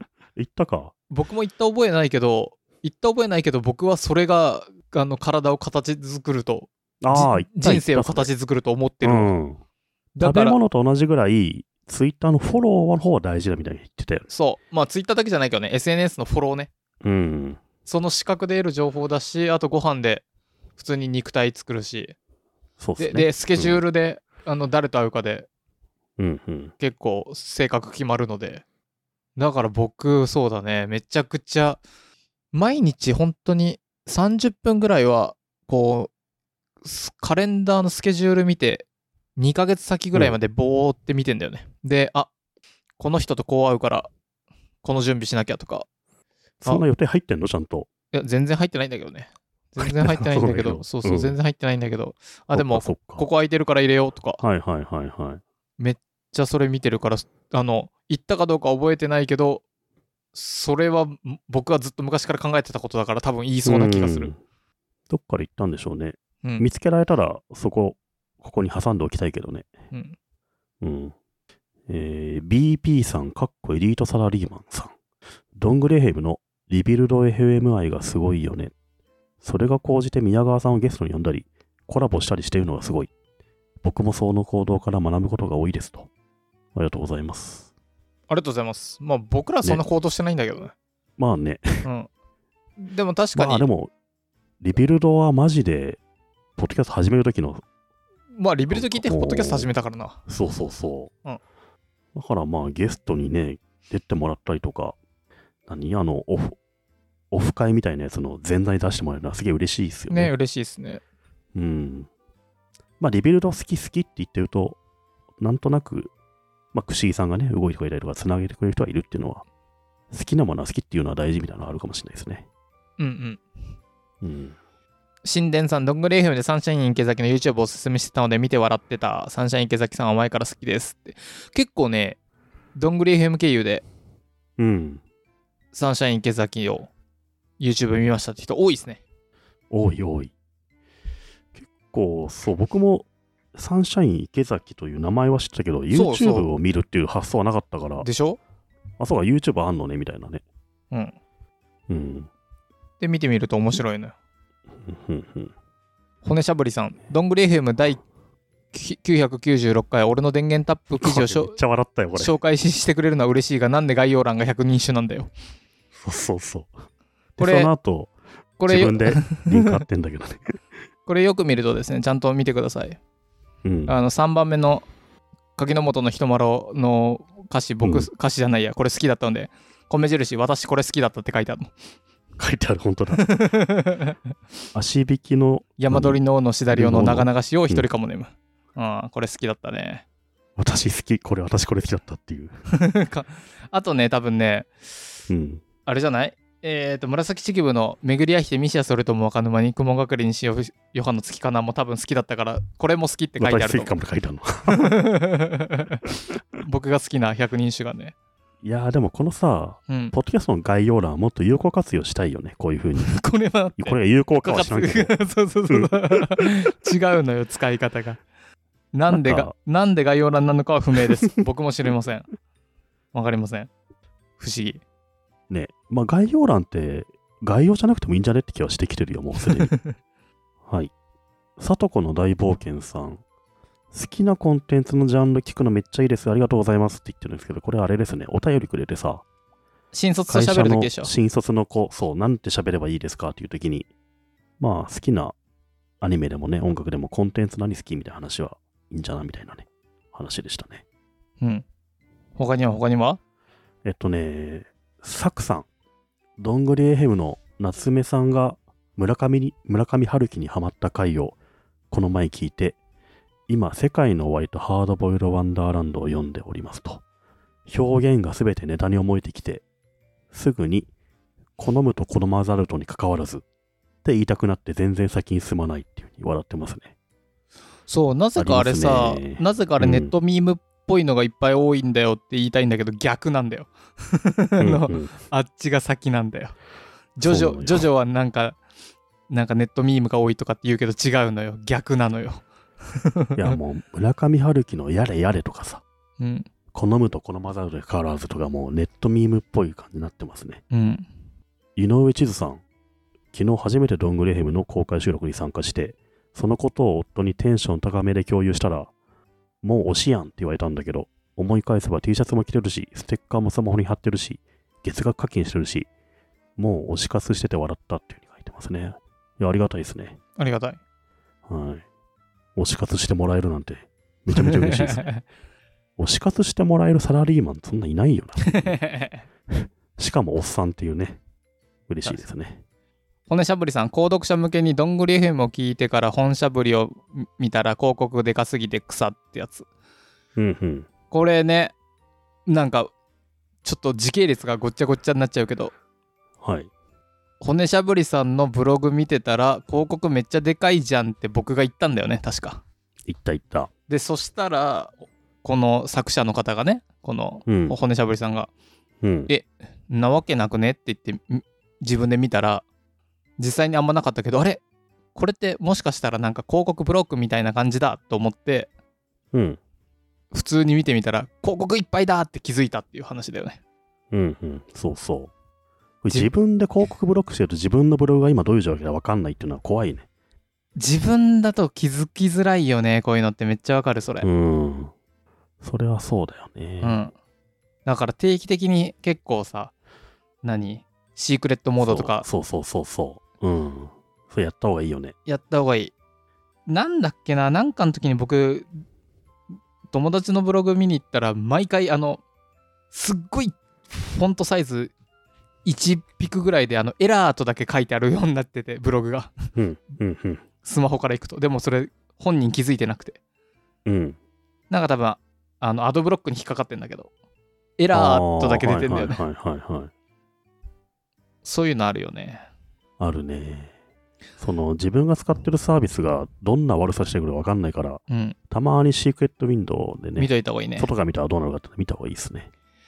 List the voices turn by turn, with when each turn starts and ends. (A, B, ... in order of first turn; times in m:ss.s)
0:00.4-0:00.9 A
0:01.1-0:09.3 B
0:07.0-0:08.3 A
0:09.0-0:09.6 A
0:10.2-0:10.6 B
0:10.2-0:14.3 A
0:14.3-0:16.7 B
0:17.0-0:17.6 A
0:17.8-0:20.2 B
0:20.8-0:22.1 B
0:22.8-0:23.8 A
0:23.0-0:25.5 B
0:26.2-0:26.7 A
0:26.8-0:28.6 B
0:29.4-0:31.8 B
0:32.5-0:36.1 B
0:36.8-0:38.8 B
0:39.4-0:42.3 B
0:43.0-0:44.1 B
0:44.8-0:45.8 B
0:46.6-0:47.9 A
0:48.1-0:54.4 B
0:49.8-0:51.4 A
0:52.5-0:53.2 A
0:54.4-0:55.4 A
0:55.8-0:59.6 B
1:00.3-1:04.3 B
1:03.6-1:04.4 A
1:05.1-1:09.7 A
1:10.8-1:11.1 A
1:11.9-1:14.9 A
1:15.6-1:18.7 A
1:19.4-1:23.1 A
1:23.8-1:26.1 A
1:26.7-1:27.7 A
1:28.3-1:30.7 B
1:31.2-1:31.8 A
1:32.8-1:33.7 B
1:33.3-1:33.9 A
1:34.6-1:36.0 A
1:36.6-1:37.6 A
1:38.4-1:40.2 B
1:38.7-1:39.7 A
1:40.3-1:41.1 A
1:42.1-1:45.0 A
1:45.7-1:46.6 A
1:47.3-1:50.3 A
1:50.1-1:51.0 B
1:51.5-1:52.1 A
1:53.0-1:54.8 A
1:55.4-1:56.1 A
1:56.7-1:59.4 A
2:00.1-2:02.4 A
2:03.0-2:03.4 B
2:04.2-2:04.6 A
2:05.2-2:12.2 B
2:12.8-2:13.8 B
2:14.6-2:15.0 A
2:15.7-2:16.9 B
2:17.6-2:19.0 B
2:19.7-2:20.3 A
2:21.5-2:28.1 A
2:25.9-2:26.5 B
2:28.0-2:28.4 B
2:29.0-2:30.4 A
2:31.9-2:32.3 A
2:33.0-2:34.1 B
2:34.8-2:35.5 A
2:36.2-2:38.0 B
2:38.7-2:41.6 B
2:41.0-2:42.4 A
2:42.1-2:45.3 B
2:46.0-2:46.7 A
2:47.4-2:48.1 A
2:47.4-2:47.7 B
2:48.6-2:49.8 B
2:48.6-2:50.6 A
2:51.0-2:53.0 B
2:53.6-2:53.9 A
2:53.9-2:54.9 B
2:55.6-3:01.7 B
2:57.8-2:58.1 A
3:02.4-3:03.3 A
3:03.2-3:04.2 B
3:04.7-3:07.9 A
3:05.8-3:10.0 B
3:10.6-3:12.5 A
3:12.8-3:14.7 B
3:15.3-3:15.6 A
3:15.8-3:23.9 B
3:23.4-3:25.0 A
3:24.7-3:26.0 B
3:26.6-3:28.1 B
3:28.6-3:33.2 A
3:29.9-3:30.1 B
3:33.0-3:38.2 B
3:33.8-3:36.3 A
3:38.9-3:42.3 B
3:39.1-3:39.5 A
3:43.1-3:43.7 B
3:44.4-3:44.8 B
3:45.5-3:49.7 A
3:50.7-3:50.9 A
3:51.6-3:53.2 A
3:53.9-3:59.2 A
3:59.9-4:01.1 B
4:00.3-4:03.9 A
4:04.6-4:05.4 A
4:06.0-4:10.8 A
4:12.4-4:13.2 B
4:13.8-4:15.7 A
4:16.4-4:21.4 A
4:21.9-4:22.8 A
4:23.5-4:27.0 A
4:27.7-4:29.6 A
4:30.3-4:30.9 A
4:31.6-4:33.4 A
4:34.0-4:36.9 A
4:37.9-4:46.5 B
4:38.4-4:40.1 A
4:44.6-4:45.2 A
4:47.2-4:48.6 B
4:47.2-4:47.9 A
4:49.3-4:53.6 B
4:53.4-4:55.8 A
4:56.2-4:56.5 B
4:56.7-5:00.6 A
5:00.7-5:01.0 B
5:01.8-5:02.6 A
5:03.3-5:08.9 A
5:09.6-5:15.9 A
5:16.6-5:20.2 A
5:20.4-5:20.8 B
5:21.5-5:21.8 A
5:22.6-5:25.1 A
5:24.3-5:25.2 B
5:26.0-5:28.8 A
5:28.6-5:29.2 B
5:29.5-5:31.2 A
5:31.9-5:32.6 A
5:33.3-5:39.7 B
5:40.4-5:40.9 A
5:41.1-5:41.7 B
5:42.5-5:42.9 B
5:43.6-5:45.7 B
5:46.4-5:46.7 A
5:47.4-5:52.6 B
5:53.1-5:53.7 A
5:53.9-5:58.5 B
5:57.5-5:57.8 A
5:59.0-5:59.3 A
5:59.3-6:02.6 B
6:03.4-6:04.6 B
6:05.1-6:08.7 B
6:09.3-6:09.6 A
6:10.3-6:13.6 B
6:14.1-6:15.3 A
6:16.0-6:20.1 A
6:20.8-6:24.3 B
6:24.2-6:24.9 A
6:25.6-6:27.0 A
6:26.8-6:27.1 B
6:27.8-6:29.7 B
6:30.4-6:32.2 B
6:31.8-6:35.1 A
6:35.3-6:35.9 B
6:36.6-6:38.7 B
6:39.9-6:42.2 B
6:42.9-6:44.9 B
6:45.6-6:49.4 B
6:49.6-6:50.4 A
6:50.6-6:53.2 B
6:53.8-6:54.2 A
6:54.7-6:57.1 B
6:57.8-6:59.2 B
6:57.9-6:59.9 A
7:01.4-7:02.4 B
7:03.0-7:03.7 A
7:04.4-7:12.5 A
7:08.1-7:08.4 B
7:10.2-7:10.9 B